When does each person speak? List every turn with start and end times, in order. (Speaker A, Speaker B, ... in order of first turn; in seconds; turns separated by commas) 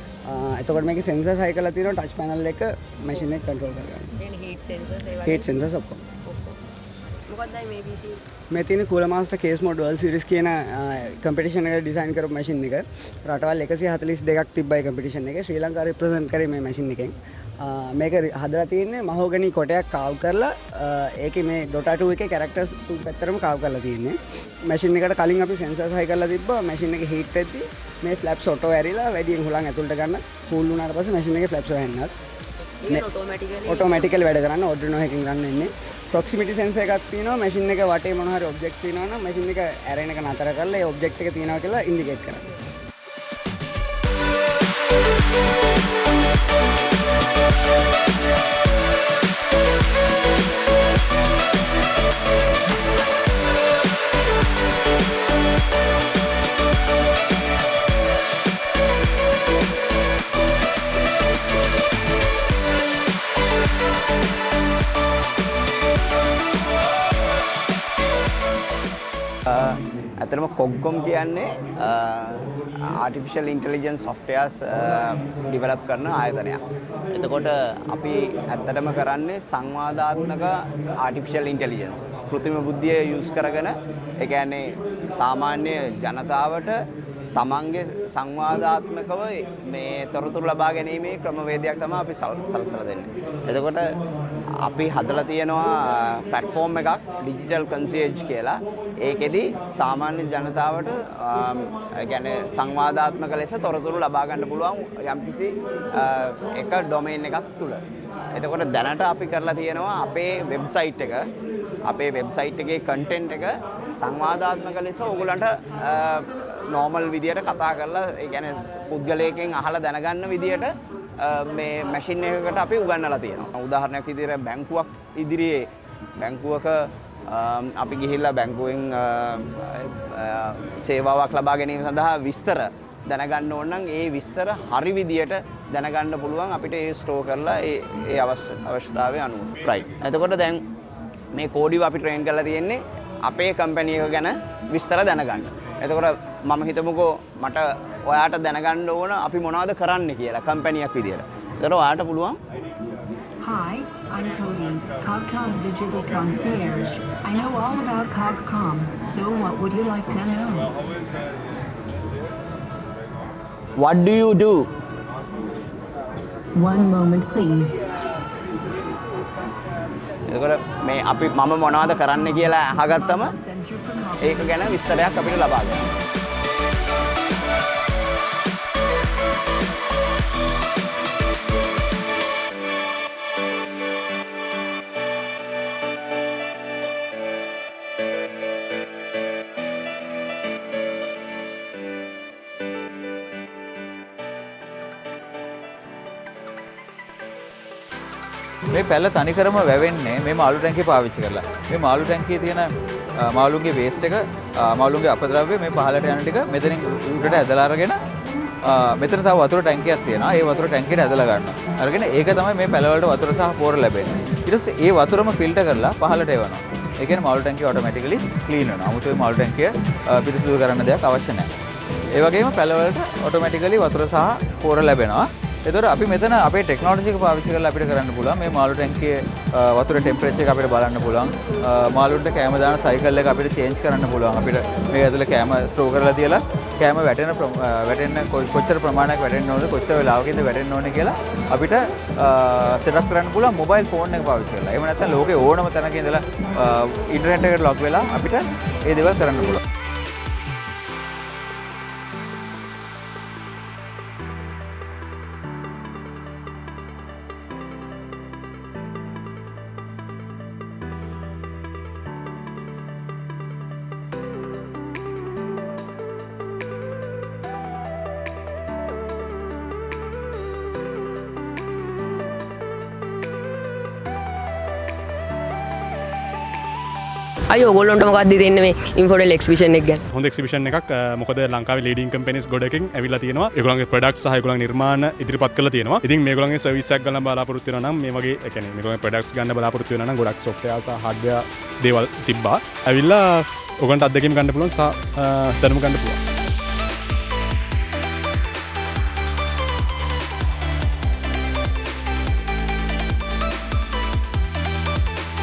Speaker A: 0.3-4.1, Speaker B: 4.2-5.5, Speaker A: 5.2-6.0, Speaker B: 6.2-6.6, Speaker B: 7.3-8.2, Speaker A: 8.5-24.1, Speaker A: 24.7-32.1, Speaker B: 32.8-34.1, Speaker A: 33.7-42.4, Speaker C: 69.5-76.6, Speaker C: 77.1-86.8, Speaker C: 87.3-93.8, Speaker C: 94.6-107.8, Speaker C: 108.3-111.2, Speaker C: 111.8-125.6, Speaker C: 126.2-140.6, Speaker C: 141.3-152.4, Speaker D: 153.4-160.7, Speaker C: 163.8-164.6, Speaker D: 166.5-167.8, Speaker C: 170.3-173.3, Speaker D: 173.0-174.7, Speaker C: 174.2-175.9, Speaker E: 198.7-202.7, Speaker E: 203.3-208.0, Speaker E: 208.6-221.5, Speaker E: 222.1-249.6, Speaker B: 277.5-280.0, Speaker F: 280.1-296.2